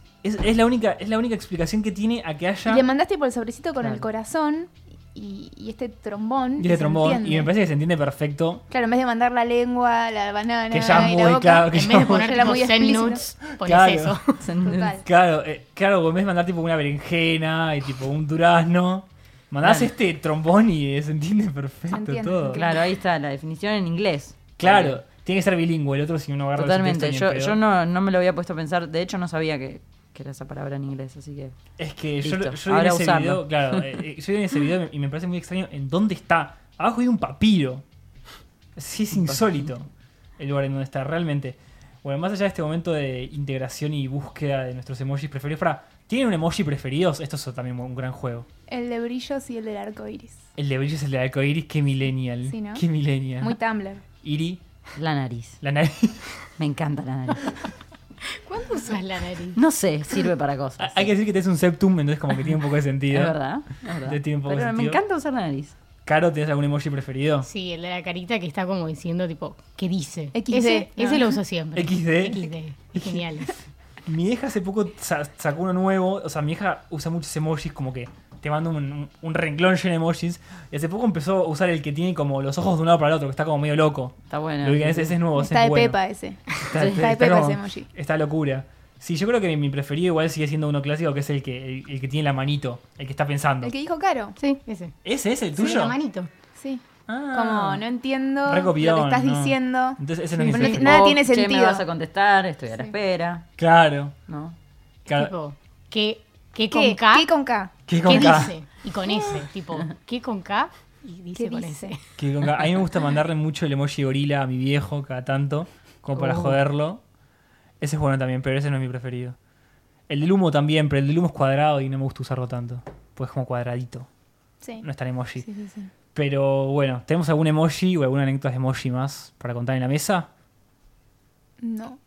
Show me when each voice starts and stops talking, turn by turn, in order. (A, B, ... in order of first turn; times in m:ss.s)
0:00.2-0:02.8 A
0:02.7-0:07.5 B
0:06.6-0:08.6 A
0:08.7-0:13.3 B
0:10.7-0:12.4 A
0:11.7-0:14.4 C
0:13.6-0:14.2 A
0:14.4-0:14.9 D
0:14.6-0:15.1 B
0:15.0-0:22.6 A
0:19.6-0:19.9 D
0:21.9-0:22.8 B
0:22.5-0:25.0 D
0:24.6-0:27.6 A
0:26.6-0:31.6 D
0:31.8-0:37.8 A
0:32.2-0:33.9 D
0:38.8-0:48.5 A
0:48.7-0:50.4 B
0:50.6-0:53.6 A
0:52.5-0:52.8 B
0:53.4-0:54.0 B
0:54.2-0:54.6 A
0:55.0-0:55.6 D
0:55.6-0:56.3 A
0:56.6-0:57.6 D
0:58.4-0:59.6 C
0:59.5-1:01.1 D
1:00.8-1:03.4 A
1:03.1-1:05.8 D
1:04.0-1:05.0 A
1:06.0-1:07.5 A
1:07.4-1:13.5 C
1:10.3-1:11.3 B
1:11.7-1:13.3 A
1:14.0-1:26.0 A
1:24.3-1:25.1 D
1:25.3-1:27.9 B
1:26.6-1:33.7 A
1:26.8-1:27.0 D
1:33.6-1:34.4 B
1:34.4-1:35.0 C
1:35.0-1:35.9 A
1:35.6-1:36.3 C
1:35.6-1:35.9 B
1:36.6-1:41.8 B
1:37.1-1:37.8 A
1:38.4-1:41.1 A
1:40.7-1:43.4 D
1:43.6-1:44.2 A
1:44.3-1:44.6 D
1:45.1-1:45.3 A
1:45.1-1:47.3 C
1:46.7-1:48.5 B
1:47.9-1:48.5 A
1:48.0-1:52.0 C
1:51.3-1:52.0 B
1:52.2-1:57.0 A
1:56.1-1:56.6 D
1:57.8-1:59.4 A
2:00.1-2:04.1 A
2:04.8-2:05.4 A
2:05.4-2:05.9 B
2:06.1-2:10.3 A
2:11.6-2:12.0 B